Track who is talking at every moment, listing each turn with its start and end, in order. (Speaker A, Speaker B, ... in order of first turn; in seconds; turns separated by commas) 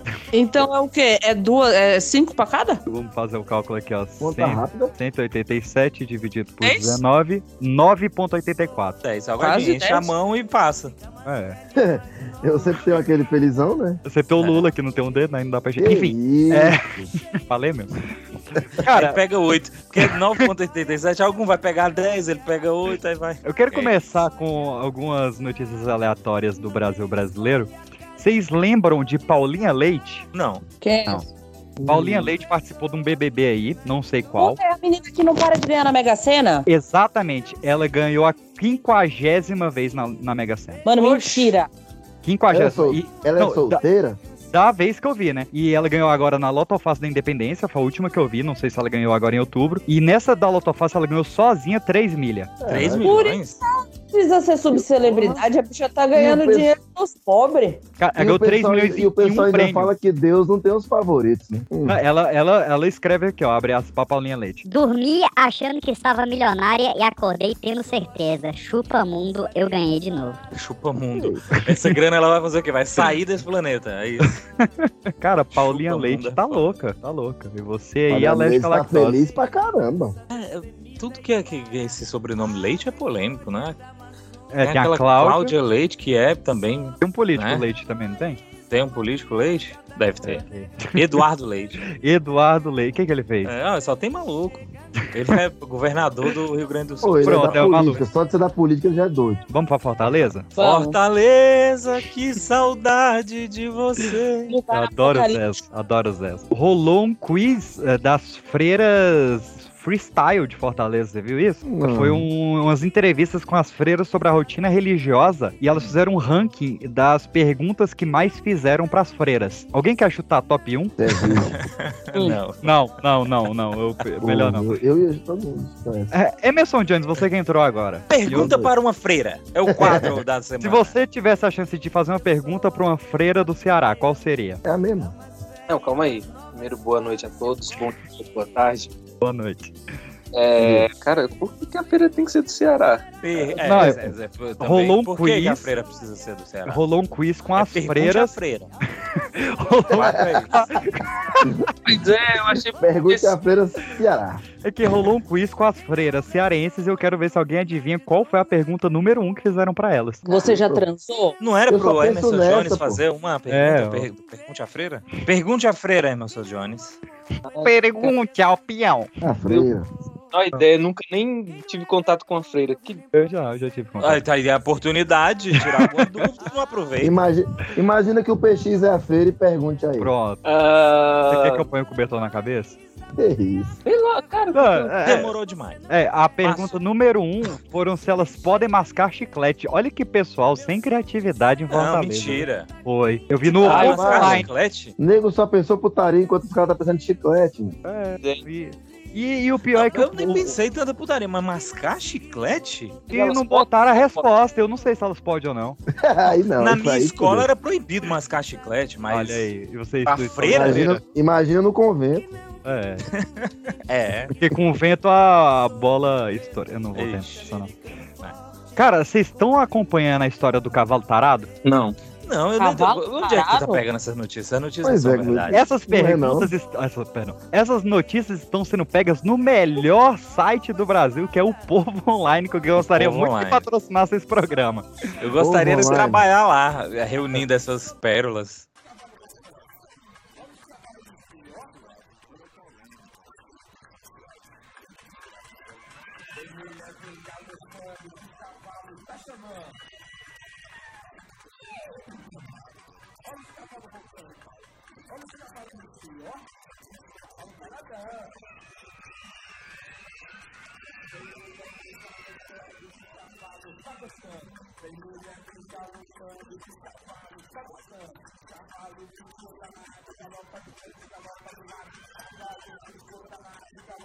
Speaker A: 0.3-2.8, Speaker B: 2.9-9.0, Speaker C: 4.2-4.9, Speaker A: 6.6-7.0, Speaker D: 9.0-10.9, Speaker A: 9.4-10.1, Speaker B: 11.2-11.6, Speaker C: 11.8-14.0, Speaker B: 14.1-17.9, Speaker D: 14.4-14.7, Speaker C: 15.8-16.8, Speaker B: 18.8-19.2, Speaker D: 18.9-23.9, Speaker B: 20.0-20.4, Speaker B: 23.4-30.3, Speaker D: 30.3-30.6, Speaker A: 30.8-31.2, Speaker C: 31.8-32.3, Speaker B: 31.8-34.6, Speaker A: 34.4-36.7, Speaker B: 36.6-41.5, Speaker A: 40.9-41.7, Speaker B: 42.2-43.8, Speaker C: 42.5-44.2, Speaker B: 44.5-52.5, Speaker C: 52.6-53.1, Speaker D: 52.7-53.6, Speaker A: 53.0-57.8, Speaker C: 54.7-55.4, Speaker C: 56.1-56.7, Speaker B: 58.0-59.9, Speaker C: 58.2-62.0, Speaker B: 61.9-64.6, Speaker E: 64.6-70.4, Speaker D: 70.5-74.4, Speaker B: 71.5-71.9, Speaker B: 74.2-79.2, Speaker D: 75.5-76.7, Speaker C: 78.1-80.2, Speaker D: 80.3-83.8, Speaker B: 84.5-85.5, Speaker D: 84.6-87.6, Speaker B: 87.0-88.4, Speaker D: 88.7-91.8, Speaker B: 90.2-91.2, Speaker B: 91.8-93.5, Speaker D: 93.4-98.0, Speaker C: 97.0-99.4, Speaker B: 97.2-98.0, Speaker B: 99.5-100.5, Speaker D: 100.1-104.5, Speaker A: 100.5-101.0, Speaker A: 104.5-105.6, Speaker B: 104.7-121.3, Speaker C: 111.6-112.2, Speaker C: 121.0-121.6, Speaker D: 121.6-122.7, Speaker B: 122.6-124.7, Speaker C: 124.2-126.1, Speaker B: 126.1-128.5, Speaker D: 128.1-130.9, Speaker C: 128.3-128.7, Speaker C: 129.7-130.1, Speaker B: 130.6-134.6, Speaker C: 134.6-135.1, Speaker F: 135.7-138.9, Speaker B: 139.2-139.7, Speaker F: 140.3-143.0, Speaker C: 140.6-140.9, Speaker D: 143.2-146.8, Speaker B: 143.6-144.0, Speaker C: 143.7-144.0, Speaker B: 144.6-145.7, Speaker B: 146.7-148.4, Speaker D: 147.6-148.7, Speaker B: 149.0-151.4, Speaker D: 149.9-150.7, Speaker C: 149.9-150.7, Speaker F: 151.8-153.3, Speaker C: 152.5-154.4, Speaker B: 154.6-160.4, Speaker A: 160.2-161.4, Speaker C: 160.3-160.8, Speaker D: 161.4-167.0, Speaker C: 161.7-163.0, Speaker B: 163.5-164.1, Speaker F: 167.5-168.1, Speaker B: 167.6-169.1, Speaker C: 169.2-169.9, Speaker F: 170.3-173.0, Speaker B: 173.1-174.2, Speaker D: 174.0-177.2, Speaker B: 175.5-176.2, Speaker C: 177.0-180.1, Speaker B: 180.0-180.4, Speaker F: 180.4-181.6, Speaker B: 181.3-182.8, Speaker C: 183.2-183.8, Speaker F: 183.8-184.9, Speaker B: 184.5-185.3, Speaker D: 185.0-185.8, Speaker B: 185.9-194.5, Speaker D: 186.4-186.8, Speaker D: 191.7-192.7, Speaker D: 193.4-194.9, Speaker F: 193.6-194.0, Speaker C: 193.7-194.4, Speaker C: 195.0-197.8, Speaker B: 197.8-200.6, Speaker D: 199.7-203.0, Speaker B: 203.1-205.8, Speaker F: 203.1-204.2, Speaker C: 206.0-207.5, Speaker D: 206.6-209.5, Speaker B: 209.1-211.0, Speaker D: 210.0-210.9, Speaker C: 210.4-212.3, Speaker B: 212.6-213.1, Speaker D: 213.1-214.3, Speaker B: 214.4-217.7, Speaker D: 216.9-217.5, Speaker B: 218.8-221.5, Speaker F: 221.6-221.9, Speaker D: 222.2-225.6, Speaker A: 222.6-223.8, Speaker C: 224.8-226.5, Speaker B: 225.5-234.9, Speaker D: 232.9-233.6, Speaker D: 235.2-238.7, Speaker C: 235.4-236.2